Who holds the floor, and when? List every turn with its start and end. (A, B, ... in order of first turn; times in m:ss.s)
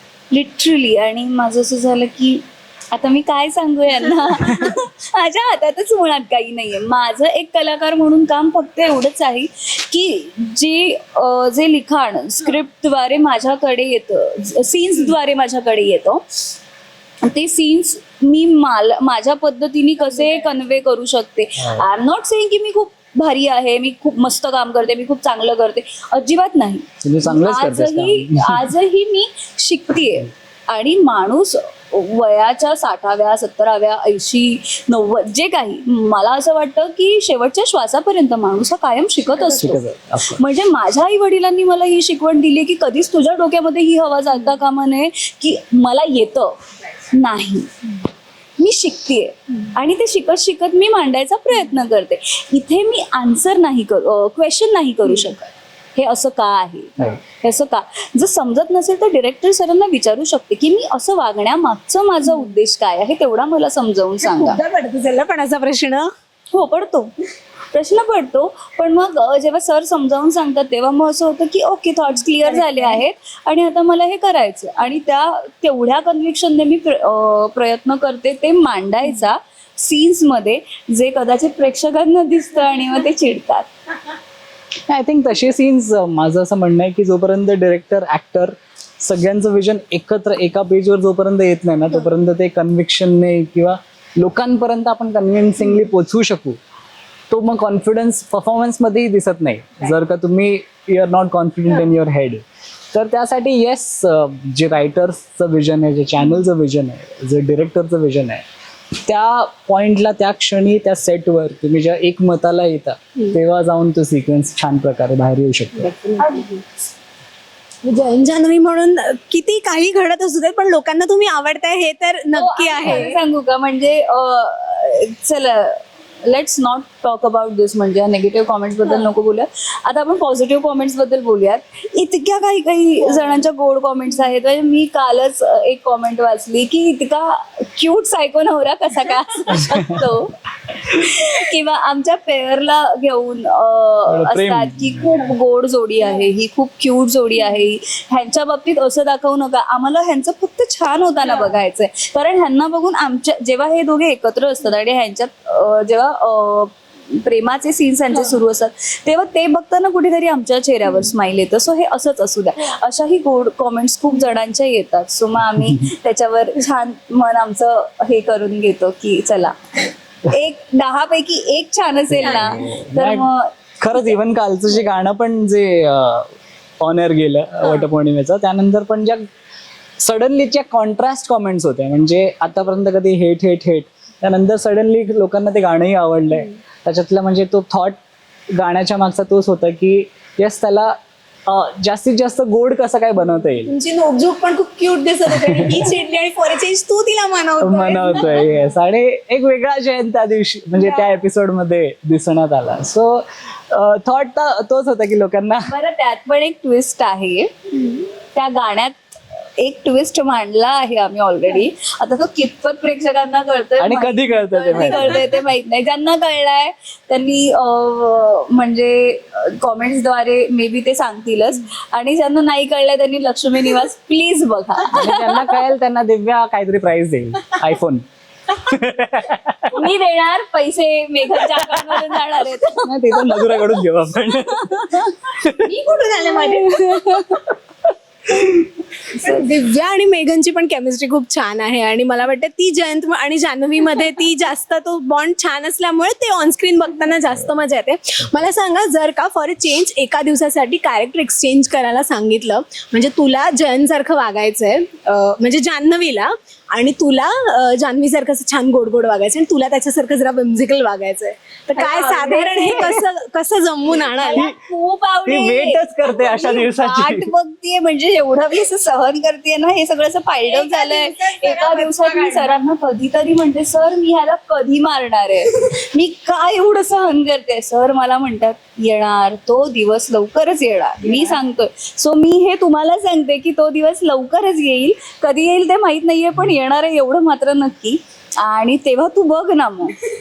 0:00.3-0:16.5 A
0:17.2-0:46.6 A
0:21.6-0:21.9 B
0:27.0-0:28.7 B
0:39.5-0:40.4 B
0:47.1-0:47.7 A
0:48.6-1:04.6 A
1:04.2-1:06.1 C
1:06.5-1:07.1 A
1:07.7-1:23.7 A
1:12.6-1:13.0 C
1:24.9-1:36.6 B
1:37.3-1:48.4 B
1:49.1-1:55.9 B
1:55.8-1:56.5 C
1:56.2-1:56.6 A
1:57.8-2:03.2 C
2:02.3-2:49.6 A
2:24.1-2:25.0 B
2:50.3-2:54.2 A
2:52.1-2:53.3 B
2:53.8-2:59.2 B
3:00.0-3:08.0 B
3:08.5-3:11.0 B
3:11.5-3:13.7 B
3:13.6-3:18.4 C
3:15.3-3:15.9 B
3:17.6-3:25.7 B
3:25.7-3:27.5 A
3:28.3-3:45.6 A
3:33.8-3:35.2 B
3:44.9-3:49.8 B
3:49.7-3:53.8 A
3:51.6-3:52.0 B
3:52.8-3:55.7 B
3:54.3-3:55.2 A
3:55.6-3:57.4 C
3:59.2-3:59.4 A
3:59.2-4:24.5 C
4:21.8-4:23.0 A
4:24.2-4:50.0 A
4:25.3-4:27.3 B
4:30.5-4:32.5 C
4:41.0-4:41.4 C